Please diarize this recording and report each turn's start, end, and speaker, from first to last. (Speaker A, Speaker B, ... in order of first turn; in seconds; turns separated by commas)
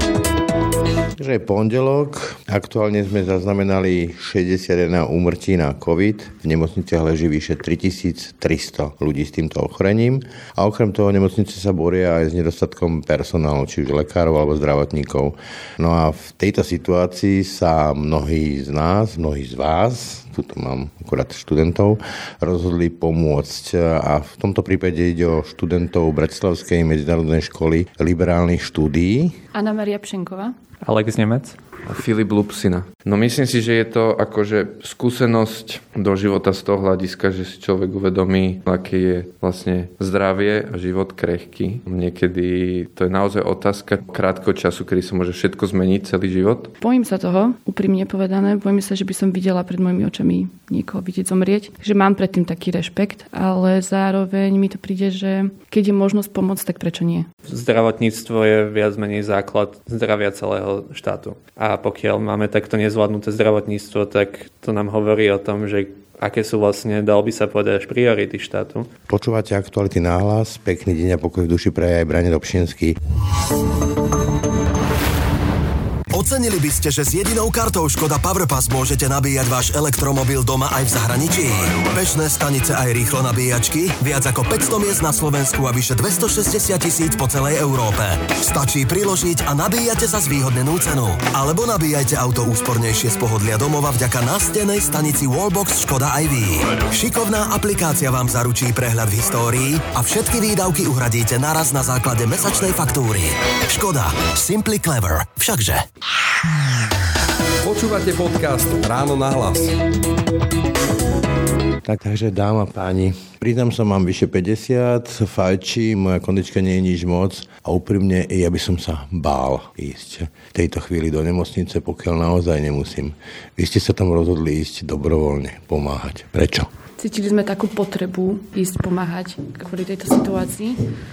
Speaker A: 1.1-29.4, Speaker B: 29.5-30.6, Speaker C: 30.8-31.6, Speaker D: 31.8-46.7, Speaker B: 46.8-57.3, Speaker C: 57.5-68.9, Speaker A: 69.1-73.0, Speaker E: 76.1-105.9, Speaker F: 107.6-109.8, Speaker A: 111.8-126.7, Speaker B: 127.0-130.8